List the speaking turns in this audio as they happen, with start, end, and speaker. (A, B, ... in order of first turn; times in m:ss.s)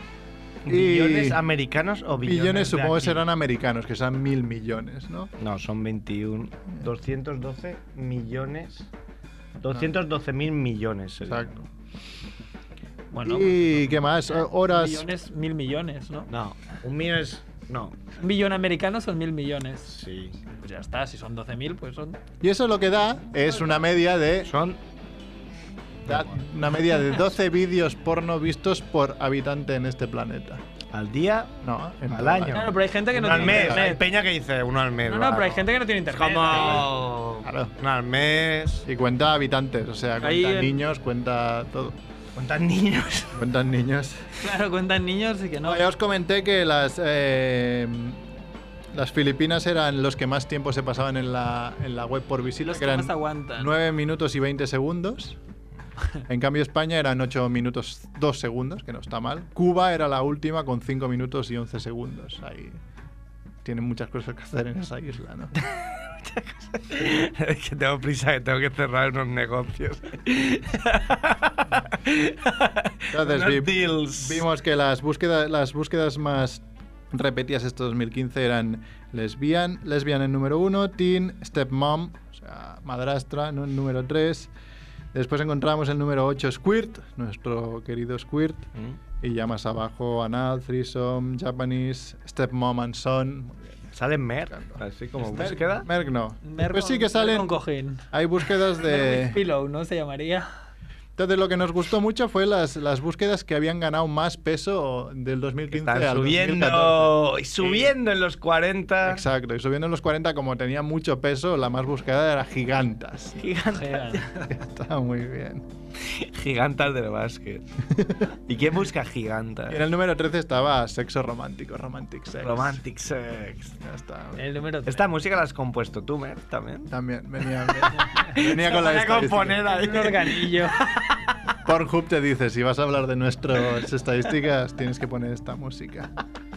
0:00.7-0:01.4 A
0:00.7-0:03.2 B
0:02.2-0:05.3 A
0:05.4-0:08.9 B
0:09.6-0:11.5 B
0:11.2-0:11.7 A
0:13.1-0:16.3 C
0:13.2-0:15.1 A
0:16.3-0:18.0 B
0:18.2-0:19.9 C
0:19.9-0:20.4 B
0:20.5-0:22.2 C
0:22.4-0:24.5 A
0:24.4-0:24.8 B
0:26.1-0:26.4 B
0:26.1-0:30.6 A
0:30.9-0:31.5 B
0:31.6-0:33.9 A
0:32.1-0:38.8 B
0:32.5-0:34.0 C
0:35.1-0:36.9 C
0:37.4-0:37.8 A
0:38.9-0:42.0 A
0:40.2-0:40.8 C
0:42.4-0:43.4 B
0:43.3-0:44.3 A
0:44.4-0:45.8 C
0:45.6-0:48.2 A
0:48.9-0:55.4 A
0:52.6-0:53.7 C
0:56.3-1:02.8 A
1:03.6-1:05.5 A
1:05.6-1:14.4 B
1:13.1-1:24.5 A
1:25.1-1:28.7 A
1:29.2-1:33.6 A
1:34.0-1:35.9 B
1:34.5-1:37.5 A
1:36.4-1:38.1 C
1:38.1-1:39.4 A
1:38.7-1:40.5 C
1:41.2-1:47.9 A
1:45.7-1:49.2 B
1:49.0-1:53.4 A
1:53.4-1:54.5 B
1:53.7-1:54.3 C
1:54.5-1:55.7 A
1:56.0-1:57.6 B
1:57.9-1:58.3 A
1:58.5-1:59.8 B
1:59.7-2:02.8 A
2:02.4-2:03.8 B
2:03.8-2:04.4 A
2:04.4-2:05.1 C
2:04.8-2:06.9 B
2:06.9-2:09.7 A
2:08.4-2:11.2 B
2:09.7-2:10.8 C
2:11.6-2:16.1 A